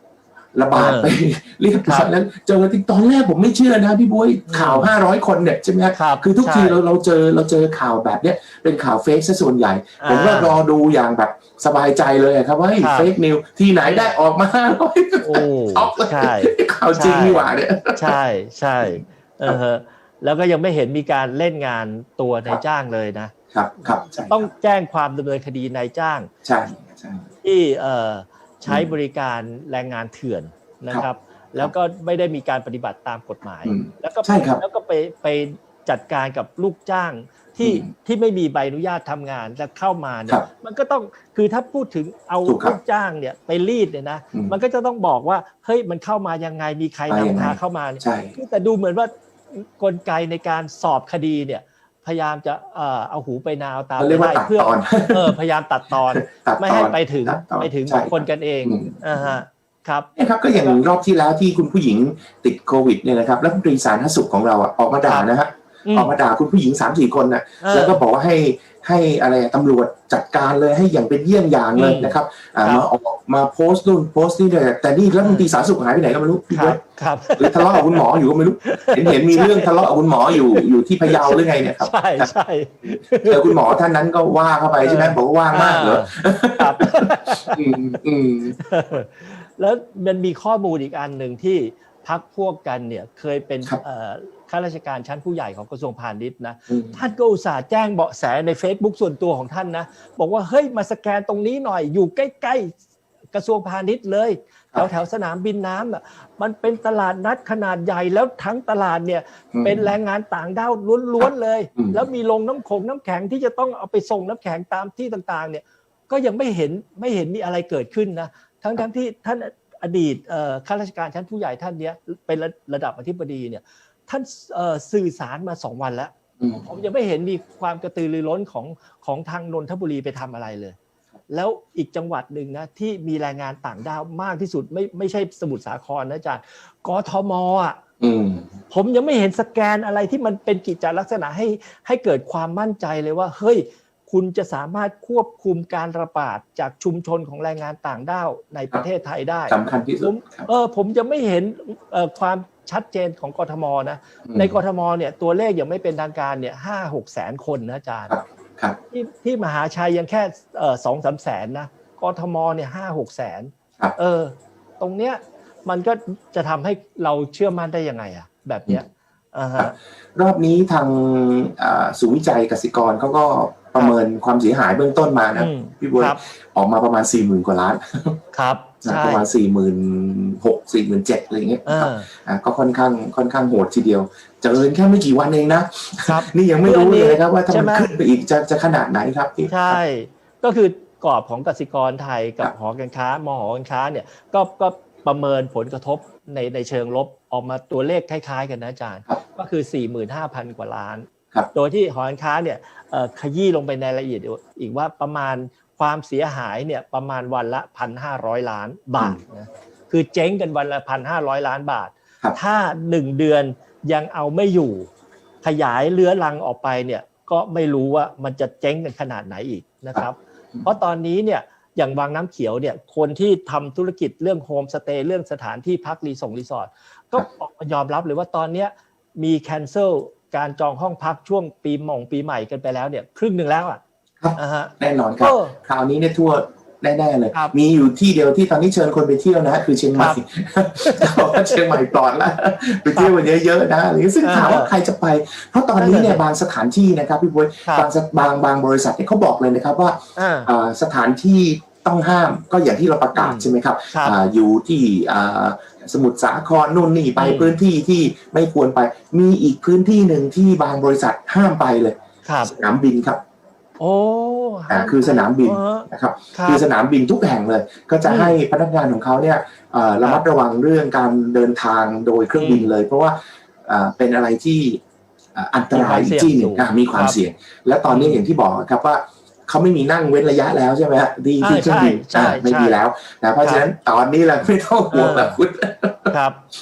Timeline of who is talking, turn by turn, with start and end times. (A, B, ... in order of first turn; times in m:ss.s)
0:00.5-0:18.1 A
0:00.7-0:01.2 B
0:04.5-0:04.9 B
0:05.9-0:06.8 B
0:10.0-0:10.6 B
0:12.8-0:13.1 B
0:13.8-0:14.1 B
0:15.2-0:26.3 B
0:18.8-0:19.6 A
0:23.5-0:24.5 A
0:26.4-0:27.3 A
0:27.4-1:00.8 B
0:28.6-0:28.9 A
0:33.6-0:34.6 A
0:37.6-0:37.9 A
0:42.4-0:42.8 A
0:47.1-0:48.4 A
0:54.0-0:55.3 A
0:56.1-0:59.3 A
1:00.2-1:16.8 A
1:05.8-1:06.2 B
1:07.6-1:08.0 B
1:11.7-1:12.9 B
1:15.2-1:15.5 B
1:16.5-1:18.1 B
1:17.4-1:22.3 A
1:18.6-1:23.8 B
1:23.2-1:28.6 A
1:24.8-1:27.6 B
1:28.6-1:42.7 B
1:36.7-1:37.0 A
1:43.3-2:10.8 B
1:49.5-1:50.0 A
1:51.8-1:52.0 A
2:06.4-2:06.7 A
2:11.3-2:17.8 B
2:18.0-2:18.5 A
2:18.7-2:38.2 B
2:29.5-2:30.5 A
2:34.2-2:34.6 A
2:38.1-2:38.8 A
2:38.9-2:49.7 B
2:49.6-2:58.2 A
2:55.4-2:56.2 B
2:58.3-2:59.2 B
2:58.8-3:09.8 A
3:01.6-3:02.1 B
3:06.0-3:07.9 B
3:09.5-3:34.9 B
3:35.4-3:53.8 B
3:39.9-3:40.6 A
3:54.2-4:23.2 A
3:54.4-3:55.6 B
3:59.9-4:00.2 B
4:00.8-4:01.7 B
4:02.9-4:03.2 B
4:04.2-4:04.7 B
4:05.8-4:06.2 B
4:10.2-4:10.5 B
4:13.1-4:14.2 B
4:17.2-4:17.6 B
4:22.2-4:22.5 B
4:23.8-4:26.6 B
4:24.7-4:34.8 A
4:28.0-4:28.4 B
4:32.4-4:32.7 B
4:35.3-4:46.1 A
4:35.7-4:37.2 B
4:37.9-4:38.2 B
4:41.4-4:42.8 B
4:43.4-4:43.7 B
4:44.9-4:45.4 B
4:46.1-4:46.4 B